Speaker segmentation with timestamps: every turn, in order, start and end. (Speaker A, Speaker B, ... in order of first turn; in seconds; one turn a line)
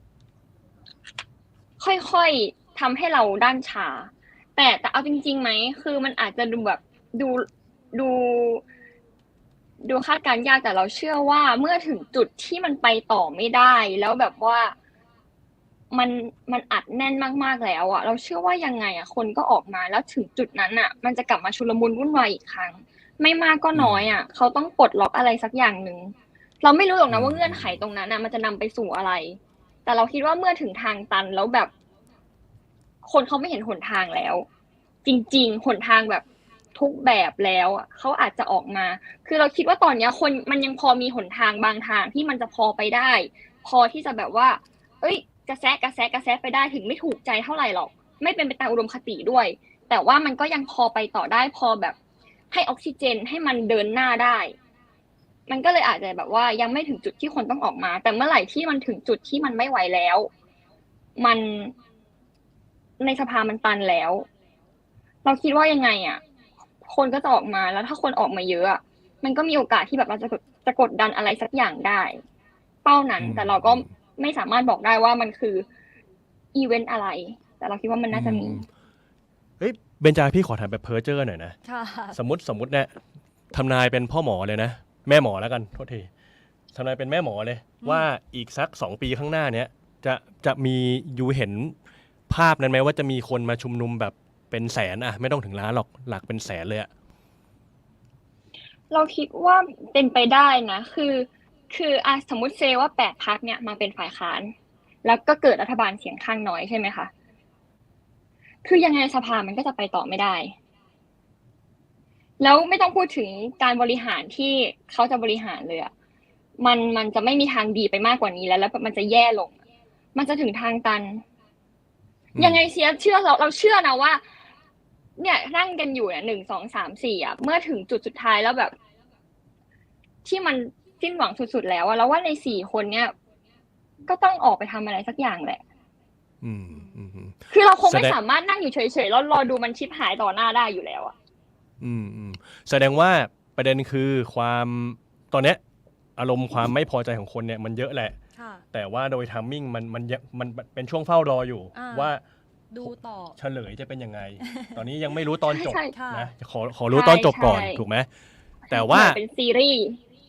Speaker A: 1.8-8.6
Speaker A: 9.8-14.7
Speaker A: 15.9-31.7
Speaker B: 23.7-24.1
Speaker B: 27.1-27.8
Speaker A: 33.0-34.5
Speaker A: 35.0-36.2
Speaker A: 36.7-52.0
Speaker A: 52.5-54.5
Speaker A: 55.5-60.3
Speaker A: 61.2-61.7
Speaker A: 63.0-64.2
Speaker A: 65.2-66.2
Speaker A: 66.8-72.2
Speaker A: 72.8-75.7
Speaker B: 73.2-73.9
Speaker A: 76.5-78.6
Speaker B: 78.1-78.7
Speaker B: 79.6-81.6
Speaker C: 81.6-82.2
Speaker B: 82.1-83.0
Speaker B: 83.5-86.1
Speaker B: 86.7-91.7
Speaker B: 92.3-96.9
Speaker A: 98.9-107.1
Speaker A: 108.6-110.5
Speaker A: 112.4-115.9
Speaker A: 116.6-119.5
Speaker A: 120.1-121.2
Speaker B: 122.3-122.6
Speaker A: 122.4-124.2
Speaker A: 125.2-128.7
Speaker A: 130.2-133.1
Speaker A: 134.1-135.6
Speaker B: 136.4-138.2
Speaker C: 136.7-136.9
Speaker A: 137.5-141.1
Speaker B: 141.8-145.6
Speaker B: 146.2-148.2
Speaker C: 148.3-148.6
Speaker B: 148.7-152.2
Speaker C: 151.7-152.1
Speaker C: 152.7-153.3
Speaker B: 152.8-158.1
Speaker C: 154.4-154.8
Speaker A: 155.5-155.9
Speaker C: 155.9-156.3
Speaker A: 156.9-157.8
Speaker A: 158.7-160.0
Speaker B: 158.7-159.2